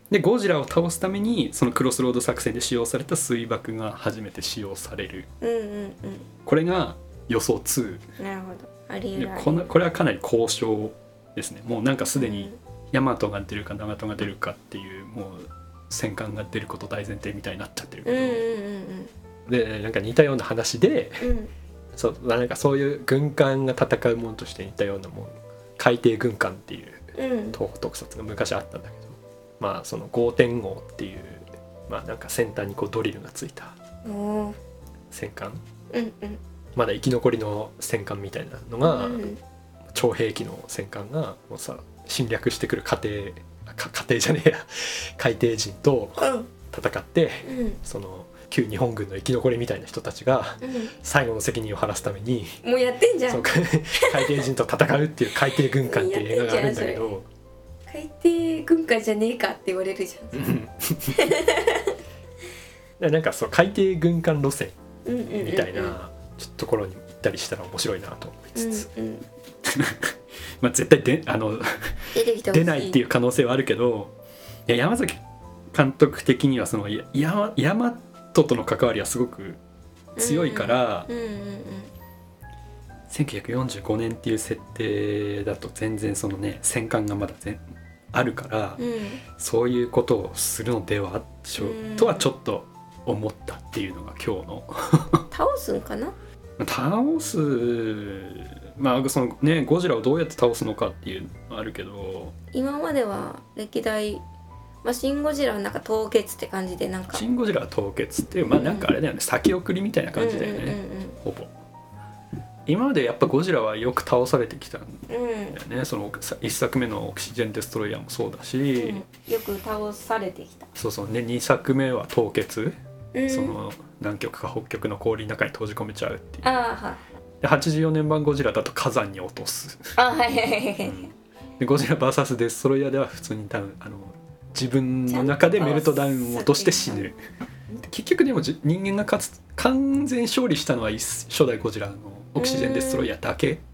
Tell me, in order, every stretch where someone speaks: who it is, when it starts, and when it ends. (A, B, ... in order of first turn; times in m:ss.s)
0:00.1-0:05.3 A
0:05.4-0:06.3 B
0:06.4-0:08.0 A
0:08.2-0:09.7 B
0:09.1-0:18.4 A
0:12.1-0:12.6 B
0:18.0-0:19.1 B
0:19.5-0:21.3 A
0:21.2-0:21.5 B
0:21.9-0:33.7 A
0:27.2-0:27.6 B
0:34.0-0:34.6 B
0:35.1-0:35.6 A
0:35.9-0:36.4 B
0:36.8-0:39.2 A
0:38.8-0:39.4 B
0:39.9-0:52.6 A
0:46.2-0:46.5 B
0:47.4-0:47.8 B
0:50.6-0:50.9 B
0:52.6-0:54.4 B
0:53.3-0:57.2 A
0:55.5-0:57.1 B
0:57.9-1:01.9 B
1:00.3-1:01.3 A
1:03.0-1:04.8 A
1:05.0-1:06.0 B
1:05.3-1:08.9 A
1:08.5-1:09.2 B
1:09.6-1:14.1 A
1:12.1-1:13.0 B
1:14.7-1:15.2 A
1:15.7-1:19.6 A
1:20.2-1:21.9 B
1:20.2-1:21.1 A
1:23.1-1:28.8 A
1:28.8-1:29.2 B
1:29.4-1:35.3 A
1:31.6-1:32.3 B
1:35.3-1:36.1 B
1:36.6-1:42.3 A
1:42.5-1:44.2 B
1:44.8-1:47.2 B
1:47.1-1:51.5 A
1:48.4-1:48.9 B
1:50.2-1:51.2 B
1:52.6-1:59.0 A
1:55.1-1:55.6 B
1:58.8-2:00.7 B
2:00.7-2:02.8 A
2:03.1-2:03.6 B
2:03.3-2:06.4 A
2:06.4-2:07.0 B
2:07.4-2:10.0 A
2:10.0-2:11.1 B
2:10.8-2:17.1 A
2:15.1-2:17.1 B
2:17.8-2:23.6 A
2:22.4-2:23.1 B